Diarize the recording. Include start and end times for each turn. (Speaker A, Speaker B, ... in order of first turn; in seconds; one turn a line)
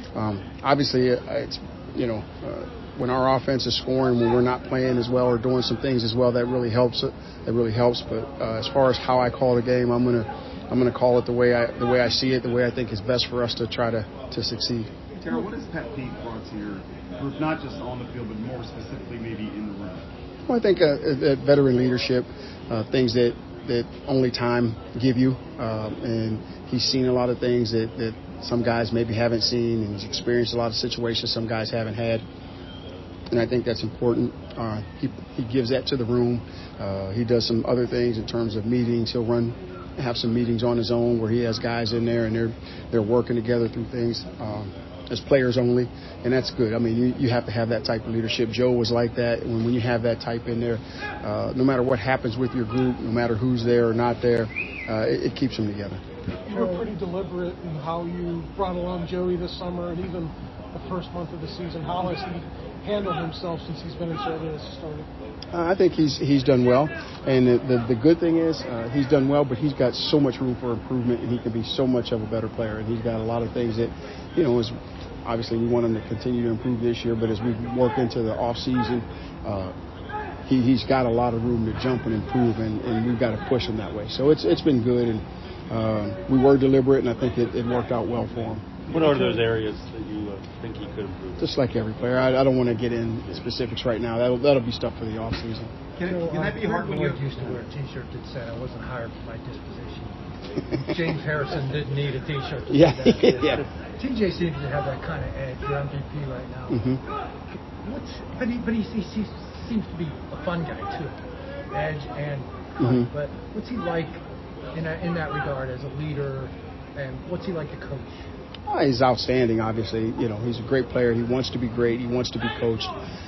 Speaker A: 0.1-14.9
Speaker B: 15.2-20.0
Speaker A: 20.5-32.2
Speaker A: 33.3-56.0
Speaker C: 56.5-56.9
Speaker D: 56.5-65.1
Speaker A: 65.5-79.7
Speaker A: 80.5-88.7
Speaker E: 88.9-91.5
Speaker A: 91.4-95.7
Speaker C: 96.0-100.2
Speaker B: 96.1-97.6
Speaker C: 100.8-106.8
Speaker A: 102.7-103.6
Speaker A: 106.7-107.0
Speaker C: 107.8-111.2
Speaker C: 111.7-114.2
Speaker A: 112.8-113.1
Speaker C: 114.7-118.2
Speaker A: 118.7-122.9